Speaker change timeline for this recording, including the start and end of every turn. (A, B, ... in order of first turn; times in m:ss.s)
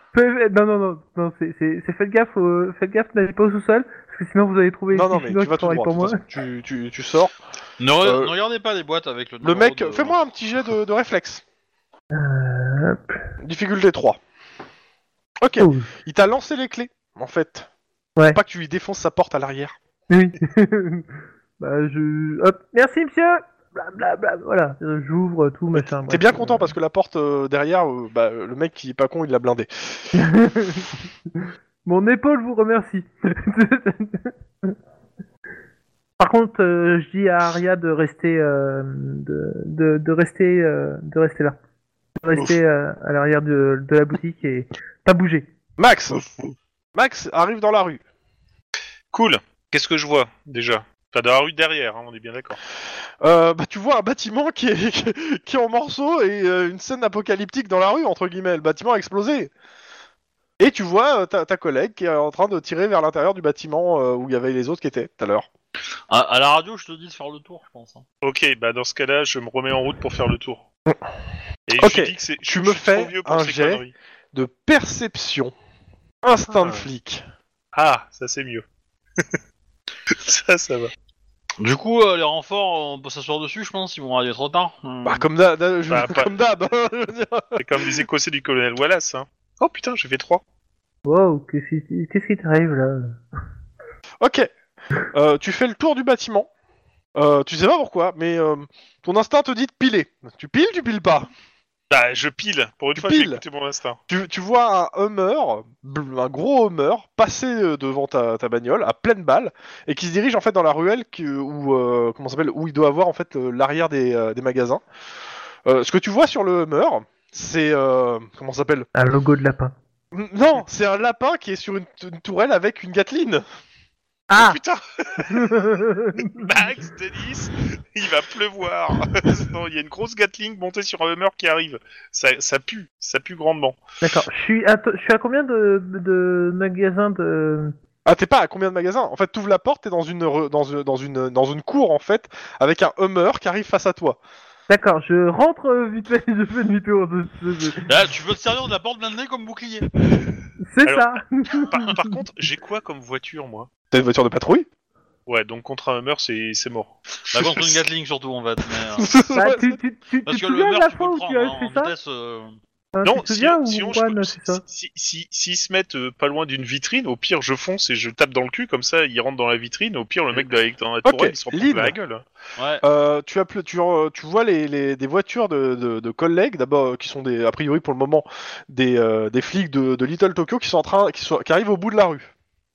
0:00.1-0:06.2 A
0:04.9-0:07.3 B
0:07.8-0:10.2 C
0:08.0-0:08.3 B
0:09.4-0:11.4 B
0:12.1-0:13.2 A
0:13.4-0:14.2 B
0:15.4-0:17.7 B
0:15.6-0:15.9 A
0:18.3-0:19.7 B
0:20.1-0:21.1 A
0:21.6-0:26.7 A
0:25.7-0:30.2 B
0:30.1-0:31.0 A
0:31.8-0:34.7 A
0:36.2-0:41.6 A
0:42.2-0:45.5 A
0:45.8-0:46.2 B
0:46.9-0:48.0 B
0:49.1-0:52.6 D
0:53.2-0:59.5 B
1:00.6-1:05.5 B
1:06.1-1:08.0 C
1:08.2-1:10.6 D
1:11.7-1:13.9 D
1:11.8-1:15.5 B
1:16.2-1:17.2 B
1:16.5-1:16.9 D
1:17.7-1:18.6 D
1:20.1-1:20.9 D
1:21.6-1:25.2 C
1:25.0-1:28.0 B
1:25.9-1:26.3 D
1:27.6-1:30.4 D
1:31.0-1:33.2 A
1:34.2-1:34.5 B
1:35.1-1:36.5 B
1:37.2-1:41.3 B
1:41.9-1:44.0 D
1:42.9-1:43.4 B
1:44.1-1:54.8 B
1:55.6-1:58.9 B
1:58.9-1:59.7 A
2:00.1-2:03.4 B
2:04.3-2:04.6 A
2:04.4-2:05.4 D
2:05.3-2:06.5 A
2:06.3-2:13.8 D
2:14.0-2:17.7 A
2:18.0-2:24.2 B
2:24.7-2:27.9 A
2:27.8-2:29.9 C
2:30.6-2:32.2 A
2:30.8-2:33.7 D
2:33.9-2:34.7 B
2:35.3-2:37.0 D
2:37.3-2:39.1 C
2:37.3-2:37.8 B
2:38.8-2:39.8 B
2:39.3-2:41.9 A
2:40.2-2:42.5 C
2:42.9-2:44.6 A
2:43.0-2:52.2 D
2:51.0-2:52.0 B
2:52.6-2:52.8 C
2:52.8-3:02.3 B